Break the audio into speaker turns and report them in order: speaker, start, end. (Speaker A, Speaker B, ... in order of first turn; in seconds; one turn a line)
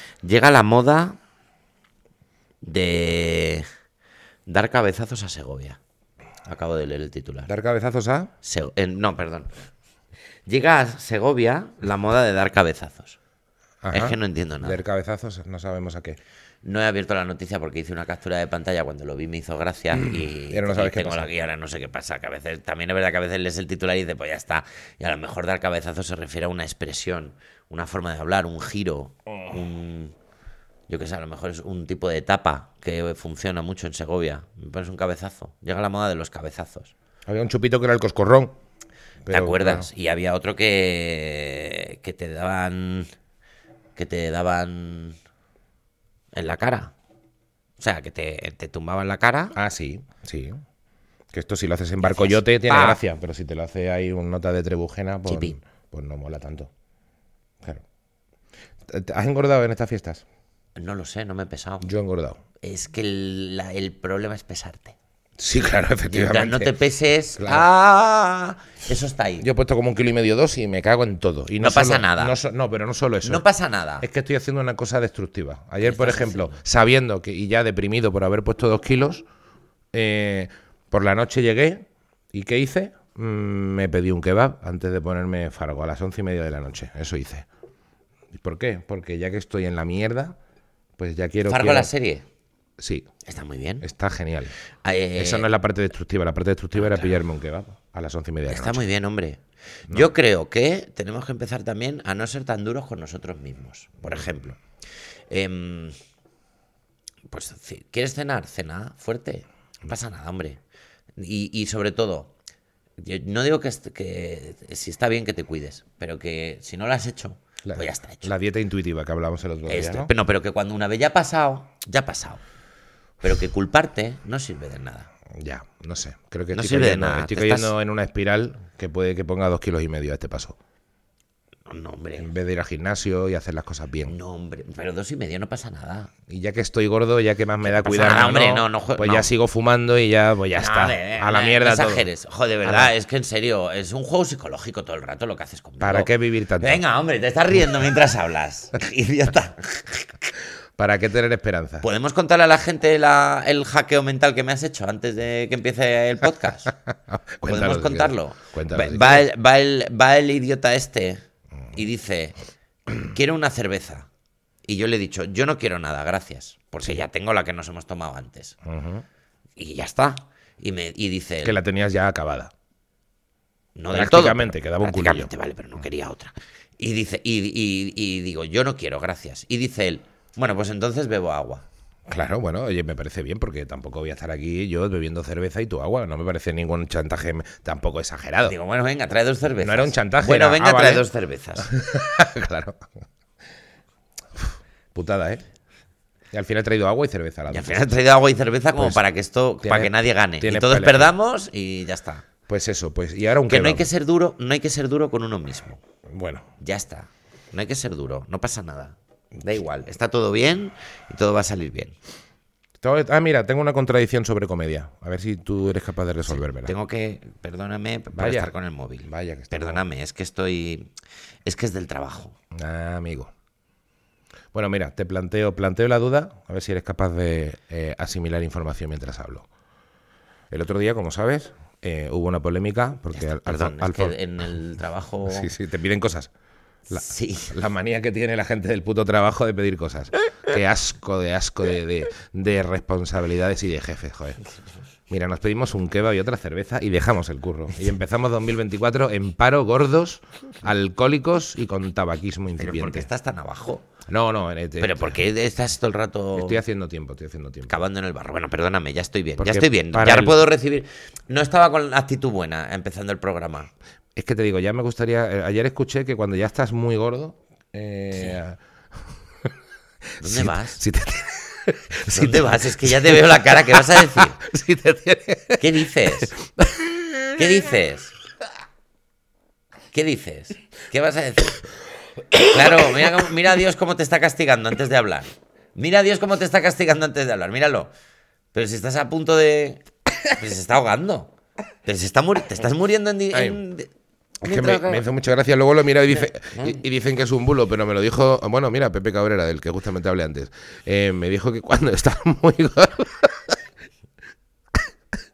Speaker A: 0.2-1.2
Speaker A: 2.6-3.6
Speaker A: 4.5-5.8
Speaker A: 6.5-7.5
Speaker B: 7.5-8.3
Speaker A: 8.4-9.5
Speaker A: 10.5-13.2
Speaker B: 13.8-16.2
Speaker A: 13.9-14.8
Speaker A: 16.6-30.1
Speaker B: 19.9-21.3
Speaker A: 30.9-36.9
Speaker B: 37.3-38.5
Speaker B: 39.2-39.9
Speaker A: 39.3-43.1
Speaker A: 44.0-45.2
Speaker A: 46.3-46.9
Speaker A: 47.8-49.5
Speaker B: 49.5-50.6
Speaker B: 51.3-56.7
Speaker A: 52.0-53.0
Speaker A: 55.3-55.5
Speaker B: 58.9-60.2
Speaker A: 60.8-61.9
Speaker B: 61.8-62.4
Speaker A: 62.6-65.0
Speaker B: 65.4-66.7
Speaker A: 66.1-69.5
Speaker B: 67.4-67.7
Speaker B: 69.4-73.4
Speaker A: 71.6-72.3
Speaker A: 73.2-74.1
Speaker B: 74.0-79.2
Speaker A: 75.8-76.6
Speaker B: 79.9-87.5
Speaker B: 88.3-90.4
Speaker B: 91.0-91.9
Speaker A: 91.5-92.2
Speaker B: 92.8-93.1
Speaker A: 93.2-93.8
Speaker B: 93.8-94.5
Speaker A: 94.8-95.5
Speaker B: 95.2-98.8
Speaker A: 96.7-97.2
Speaker A: 98.5-104.6
Speaker B: 104.0-104.3
Speaker A: 105.3-105.9
Speaker A: 107.3-110.6
Speaker A: 111.2-112.3
Speaker A: 113.0-118.3
Speaker B: 117.6-120.1
Speaker A: 119.7-122.4
Speaker A: 123.2-125.1
Speaker B: 125.3-130.6
Speaker A: 126.5-127.7
Speaker A: 131.7-132.3
Speaker B: 132.2-134.1
Speaker A: 134.1-136.1
Speaker B: 136.3-142.1
Speaker A: 137.6-139.3
Speaker A: 140.5-150.1
Speaker B: 142.6-142.9
Speaker B: 145.8-146.8
Speaker B: 150.8-151.8
Speaker A: 151.8-156.7
Speaker B: 156.9-159.2
Speaker A: 157.4-162.4
Speaker A: 163.0-164.1
Speaker A: 164.6-168.6
Speaker B: 168.6-169.0
Speaker A: 169.6-171.6
Speaker B: 171.4-172.5
Speaker A: 173.8-181.6
Speaker B: 173.9-175.3
Speaker B: 182.1-188.6
Speaker A: 188.4-191.7
Speaker B: 189.6-191.1
Speaker B: 191.6-192.9
Speaker B: 194.3-195.4
Speaker B: 196.3-197.9
Speaker A: 197.5-202.2
Speaker B: 199.6-201.1
Speaker B: 202.5-203.8
Speaker A: 203.5-205.8
Speaker B: 206.1-206.5
Speaker A: 206.6-211.9
Speaker B: 212.8-216.7
Speaker A: 216.3-220.9
Speaker B: 218.2-219.8
Speaker A: 221.4-222.3
Speaker B: 222.5-223.3
Speaker B: 224.5-229.5
Speaker B: 230.5-234.1
Speaker A: 233.1-235.5
Speaker B: 235.3-236.3
Speaker B: 236.9-244.4
Speaker A: 236.9-237.6
Speaker B: 245.1-253.1
Speaker A: 252.6-253.8
Speaker B: 254.1-255.2
Speaker A: 254.8-256.6
Speaker B: 256.4-257.7
Speaker A: 257.7-263.7
Speaker B: 259.4-260.4
Speaker B: 264.1-268.6
Speaker B: 270.2-277.6
Speaker A: 270.2-270.8
Speaker A: 272.1-274.4
Speaker A: 275.6-276.3
Speaker A: 277.4-278.1
Speaker A: 279.9-281.6
Speaker B: 282.3-283.1
Speaker A: 282.5-287.9
Speaker A: 288.5-291.3
Speaker A: 291.8-293.9
Speaker B: 293.3-293.6
Speaker A: 294.4-295.1
Speaker B: 294.4-303.6
Speaker A: 296.1-296.8